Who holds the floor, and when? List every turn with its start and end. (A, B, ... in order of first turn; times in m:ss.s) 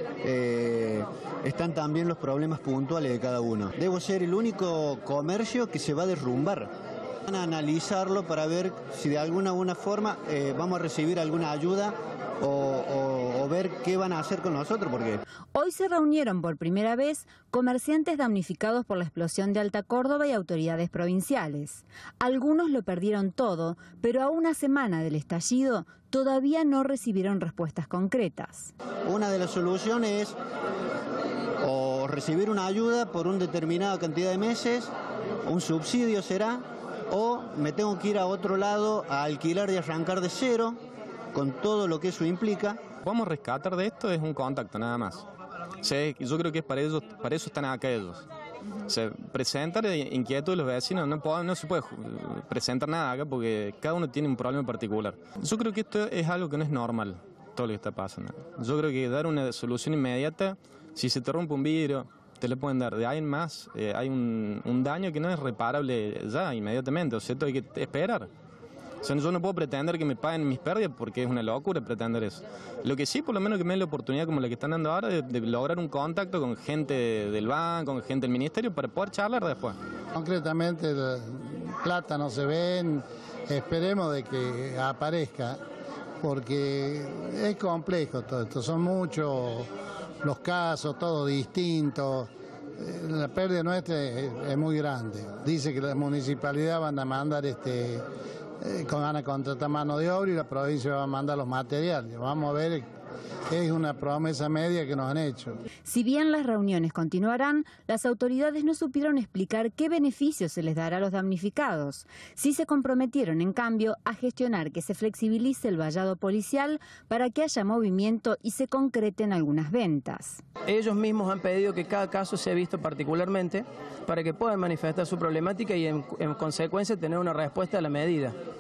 0:00.2-0:06.7 A
0:07.3-0:15.2 A
0:15.5-0:28.7 B
0:29.1-0:30.4 A
0:31.6-0:34.9 A
0:35.4-0:40.8 A
0:41.3-0:42.8 A
0:43.0-0:45.2 C
0:45.8-0:48.2 C
0:48.9-1:08.3 C
1:09.0-1:19.8 C
1:20.2-1:25.6 D
1:26.2-1:29.7 D
1:30.2-1:38.0 D
1:38.6-1:42.8 D
1:43.5-1:45.6 D
1:45.8-2:00.4 B
2:00.7-2:08.4 E